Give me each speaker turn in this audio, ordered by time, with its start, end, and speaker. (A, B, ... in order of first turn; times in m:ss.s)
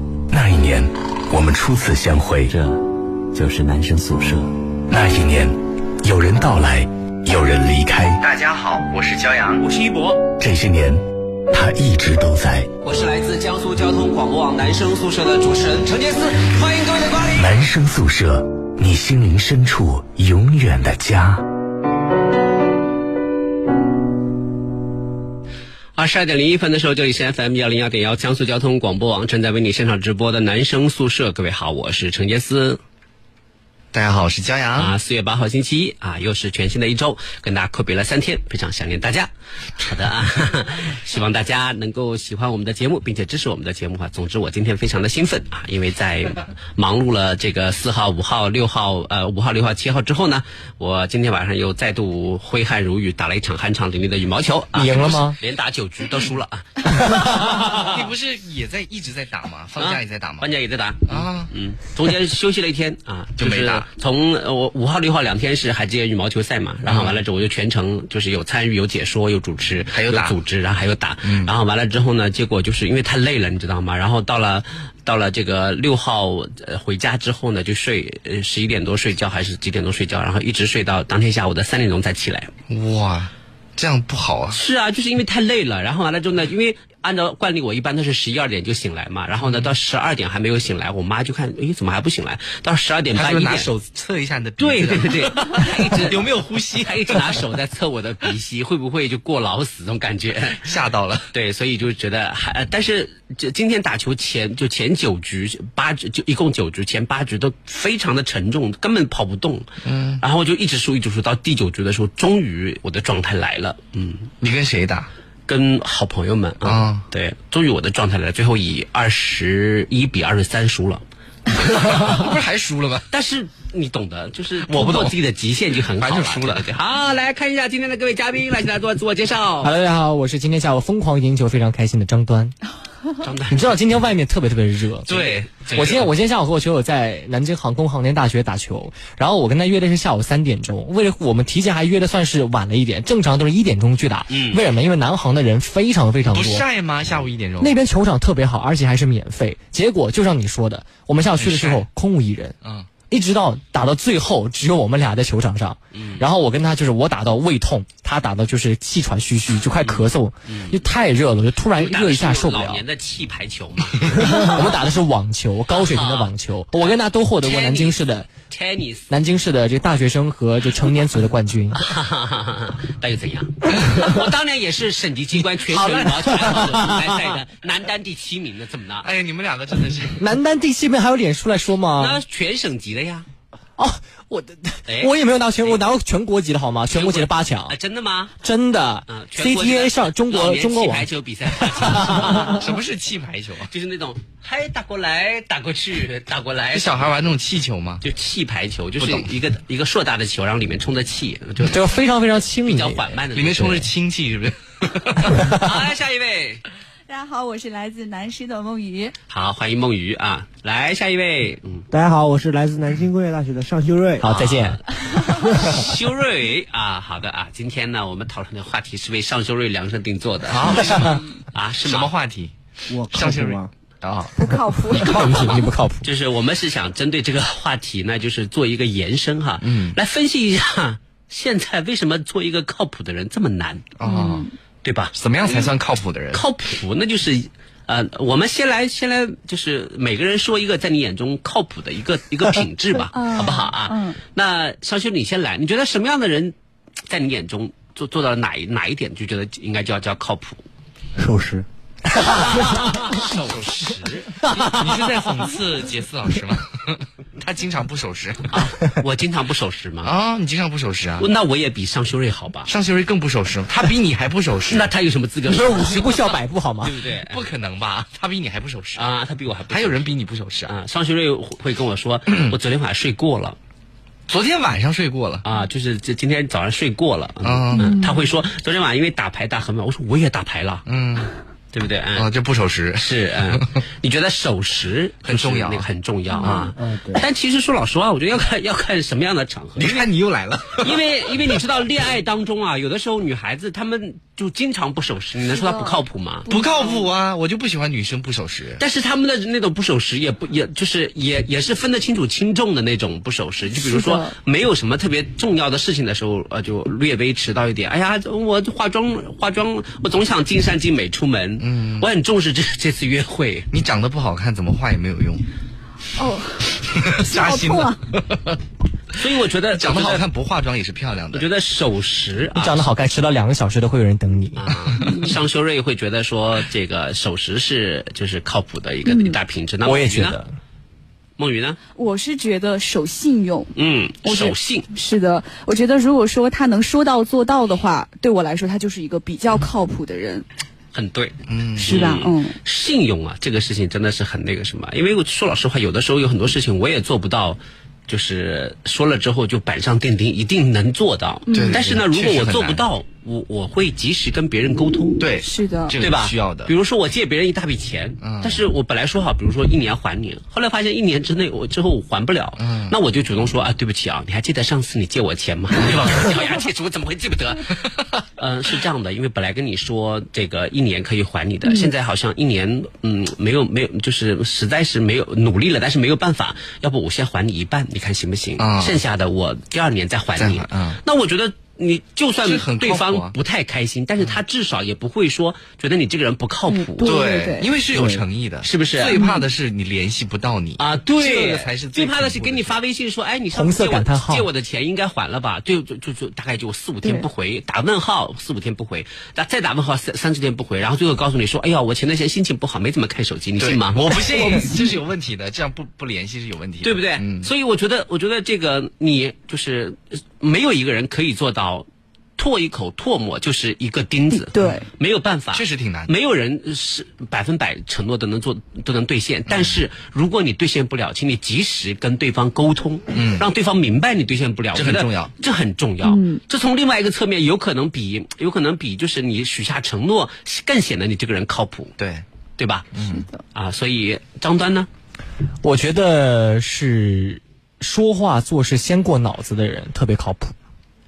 0:00.3-0:02.5 A
0:02.5-0:04.5 B
0:04.9-0:08.2 A
0:08.2-0:09.6 C
0:09.6-0:10.2 D
0:10.4-0:12.7 A
0:12.8-0:17.4 D
0:17.4-0:21.4 A
0:26.0-0:32.8 D
0:33.9-0:34.9 C
0:34.8-0:57.8 D
0:54.7-0:55.4 E
0:57.7-1:00.5 C
0:59.8-1:22.5 D
1:01.1-1:01.5 C
1:03.4-1:03.8 C
1:06.8-1:07.2 C
1:09.9-1:10.4 C
1:11.2-1:11.5 C
1:22.7-1:24.6 C
1:24.5-1:33.7 D
1:29.4-1:29.7 C
1:33.1-1:37.4 C
1:34.6-1:40.7 D
1:40.6-1:41.3 C
1:41.3-1:49.7 D
1:49.8-1:50.2 C
1:50.2-1:54.3 D
1:54.4-1:55.1 C
1:55.5-2:01.0 D
1:56.6-1:57.0 C
2:01.6-2:03.0 C
2:01.7-2:02.2 D
2:03.1-2:09.7 D
2:04.6-2:05.2 C
2:05.9-2:06.7 C
2:09.6-2:12.5 E
2:13.2-2:13.8 D
2:13.5-2:26.6 E
2:15.0-2:15.9 C
2:15.5-2:16.1 D
2:24.3-2:24.6 D
2:26.3-2:27.8 C
2:27.6-2:32.6 E
2:31.4-2:31.8 C
2:32.6-2:32.9 C
2:33.1-2:42.8 E
2:35.9-2:36.2 D
2:39.8-2:40.8 D
2:41.8-2:44.6 D
2:44.2-2:48.3 E
2:45.7-2:49.1 D
2:49.1-2:51.8 E
2:51.8-2:59.1 D
2:55.7-2:57.4 E
2:59.0-3:00.2 C
3:00.2-3:02.2 E
3:02.0-3:03.2 D
3:03.8-3:07.8 E
3:04.9-3:05.8 D
3:06.9-3:08.3 D
3:08.4-3:12.5 E
3:09.1-3:12.6 D
3:12.4-3:13.7 C
3:13.7-3:17.1 D
3:16.7-3:18.0 C
3:18.0-3:21.8 D
3:19.0-3:19.3 C
3:21.6-3:23.2 E
3:22.6-3:23.9 D
3:23.3-3:25.4 C
3:25.4-3:26.6 D
3:27.1-3:29.1 F
3:29.3-3:31.8 D
3:31.9-3:34.3 G
3:34.2-3:34.8 E
3:34.2-3:34.7 C
3:35.4-3:35.7 G
3:35.5-3:42.1 D
3:40.5-3:41.2 C
3:41.8-3:42.5 C
3:42.9-3:43.7 G
3:43.1-3:45.6 C
3:44.4-3:45.6 F
3:44.9-3:46.1 E
3:46.0-3:53.9 D
3:49.6-3:50.0 C
3:54.0-3:54.5 C
3:54.0-3:54.5 F
3:54.8-3:55.7 D
3:55.1-3:56.4 C
3:56.3-4:06.5 D
4:03.1-4:04.2 F
4:07.1-4:10.6 D
4:11.2-4:11.6 G
4:12.2-4:14.7 D
4:14.6-4:18.5 C
4:18.5-4:20.1 D
4:20.0-4:21.3 C
4:21.2-4:22.7 D
4:22.7-4:24.9 C
4:24.7-4:27.4 D
4:25.5-4:27.0 E
4:27.2-4:29.0 C
4:29.0-4:30.1 D
4:29.7-4:30.7 C
4:30.7-4:33.6 D
4:32.3-4:32.6 C
4:34.3-4:35.4 C
4:35.4-4:40.8 D
4:37.4-4:38.0 C
4:37.8-4:38.2 F
4:40.8-4:41.3 C
4:41.7-4:42.3 D
4:42.1-4:43.6 C
4:43.0-4:50.1 D
4:45.2-4:45.8 C
4:46.3-4:46.7 F
4:46.4-4:46.7 C
4:46.8-4:47.2 G
4:49.8-4:51.5 C
4:50.8-4:56.5 D
4:55.5-4:57.1 F
4:56.5-4:58.8 C
4:58.8-5:13.7 D
5:03.8-5:04.3 F
5:11.6-5:12.1 C
5:13.7-5:15.4 C
5:16.2-5:18.0 F
5:16.8-5:18.6 C
5:19.1-5:20.2 D
5:19.7-5:21.5 C
5:21.3-5:22.9 D
5:22.6-5:25.0 E
5:24.6-5:30.4 D
5:29.0-5:29.4 F
5:29.8-5:30.5 E
5:31.4-5:31.8 D
5:32.0-5:40.4 F
5:33.8-5:34.9 D
5:40.9-5:55.2 D
5:41.5-5:41.9 C
5:41.8-5:42.6 F
5:51.5-5:51.8 F
5:51.5-5:52.8 C
5:55.2-5:56.7 C
5:55.4-5:55.9 F
5:56.0-6:07.7 D
5:58.2-5:58.6 C
6:02.6-6:03.0 C
6:08.4-6:27.2 D
6:18.6-6:19.0 C
6:20.4-6:21.0 C
6:22.4-6:23.3 C
6:26.7-6:27.7 F
6:27.0-6:32.7 C
6:27.9-6:28.2 G
6:28.6-6:29.2 D
6:29.1-6:29.4 F
6:30.8-6:44.6 D
6:33.5-6:34.5 E
6:43.6-6:47.5 C
6:44.3-6:44.9 F
6:46.8-6:51.8 D
6:52.4-7:11.9 D
6:54.5-6:54.9 F
6:55.5-6:56.1 C
6:59.5-6:59.8 C
7:03.1-7:03.5 C
7:04.7-7:05.3 C
7:06.0-7:06.4 F
7:12.0-7:12.2 C
7:12.6-7:12.9 D
7:12.9-7:13.3 C
7:13.5-7:14.9 D
7:15.6-7:20.5 E